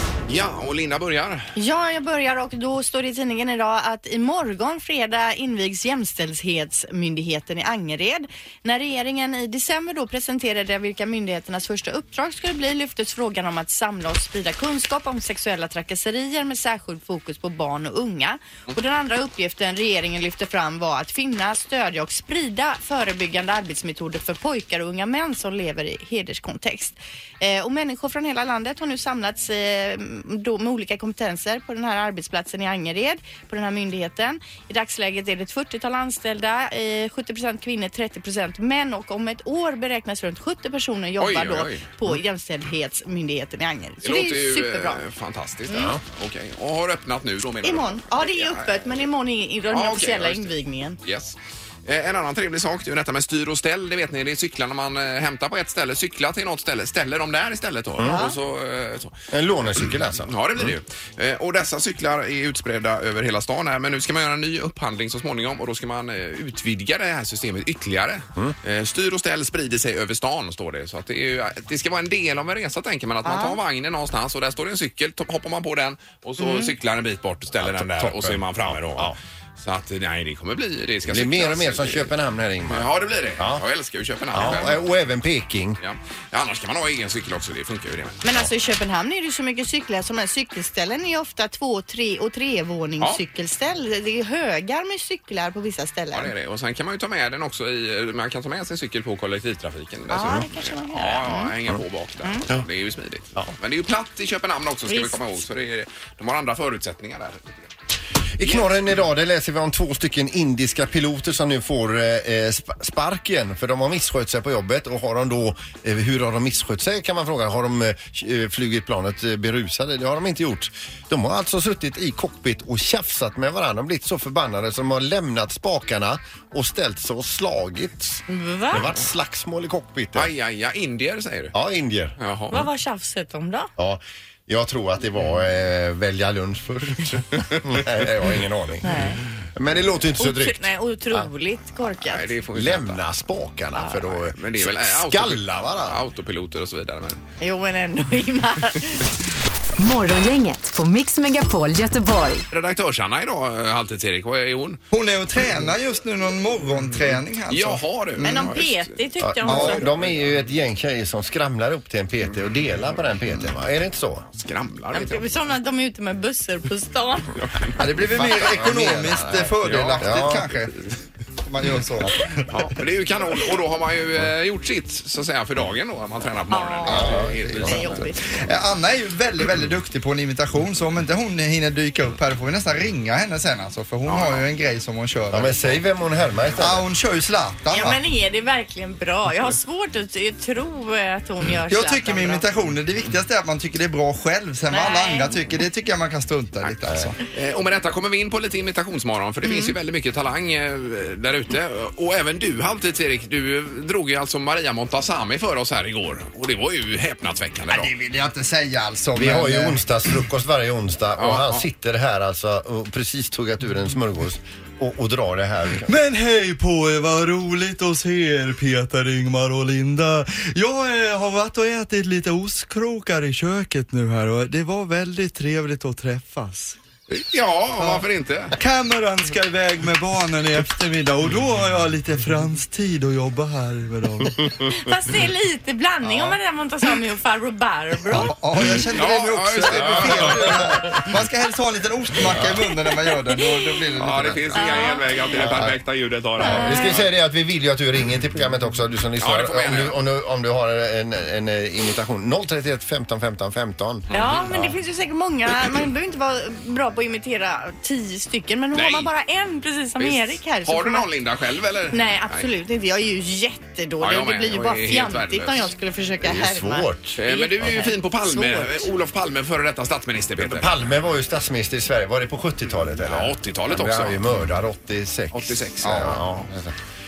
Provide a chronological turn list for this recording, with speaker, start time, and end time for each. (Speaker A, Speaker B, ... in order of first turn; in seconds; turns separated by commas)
Speaker A: 0.3-1.5, Speaker B: 1.6-45.0, Speaker A: 41.2-41.9, Speaker A: 44.0-48.8, Speaker B: 47.6-51.0, Speaker A: 49.7-59.1, Speaker C: 58.0-58.2, Speaker B: 58.0-58.4, Speaker C: 59.3-60.7, Speaker A: 60.2-82.1, Speaker B: 73.2-73.6, Speaker B: 76.4-76.7, Speaker C: 77.6-79.2, Speaker C: 81.1-83.6, Speaker A: 82.7-84.8, Speaker C: 84.3-85.8, Speaker A: 85.8-88.3, Speaker B: 88.2-96.3, Speaker A: 96.1-107.7, Speaker B: 100.1-101.5, Speaker B: 104.9-105.2, Speaker C: 108.4-130.3, Speaker B: 128.3-128.9, Speaker A: 130.2-131.5, Speaker C: 131.5-132.2, Speaker A: 132.2-132.7, Speaker B: 132.5-133.7, Speaker C: 133.8-138.9, Speaker B: 138.8-139.2, Speaker C: 139.5-141.3, Speaker B: 140.2-142.3, Speaker A: 142.0-143.0, Speaker C: 142.5-146.0, Speaker B: 143.8-144.0, Speaker A: 144.2-147.2, Speaker B: 147.4-149.1, Speaker D: 149.8-152.5, Speaker A: 152.5-154.8, Speaker E: 154.9-158.5, Speaker A: 157.5-158.9, Speaker B: 158.2-159.9, Speaker C: 159.2-164.3, Speaker E: 159.5-159.8, Speaker A: 164.4-165.3, Speaker B: 164.9-167.3, Speaker A: 167.4-167.8, Speaker E: 167.8-170.7, Speaker C: 168.2-170.5, Speaker A: 169.6-170.5, Speaker E: 171.4-172.6, Speaker A: 172.5-178.1, Speaker B: 176.5-178.2, Speaker E: 176.9-177.8, Speaker C: 176.9-177.8, Speaker E: 178.3-185.6, Speaker A: 184.1-184.4, Speaker C: 185.3-186.9, Speaker E: 186.6-188.0, Speaker B: 187.7-192.4, Speaker E: 191.7-197.2, Speaker B: 194.7-195.3, Speaker A: 197.3-207.9, Speaker B: 199.4-199.8, Speaker E: 207.7-209.8, Speaker C: 209.2-215.9, Speaker A: 211.2-211.7, Speaker E: 215.9-226.8, Speaker A: 227.1-228.6, Speaker E: 228.6-234.5, Speaker B: 234.6-238.3, Speaker E: 238.2-244.9, Speaker A: 238.9-241.1, Speaker C: 239.9-240.8, Speaker B: 243.1-243.7, Speaker A: 244.0-247.1, Speaker B: 244.6-245.3, Speaker C: 245.4-245.8, Speaker C: 246.4-254.7, Speaker B: 246.4-247.0, Speaker A: 249.2-250.0, Speaker A: 254.1-254.6, Speaker B: 254.1-261.1, Speaker A: 258.7-259.1, Speaker A: 260.0-262.5, Speaker B: 261.9-268.9, Speaker A: 264.0-265.7, Speaker C: 266.2-267.2, Speaker A: 267.2-270.8, Speaker C: 270.4-276.8, Speaker A: 273.1-274.2, Speaker A: 275.3-276.2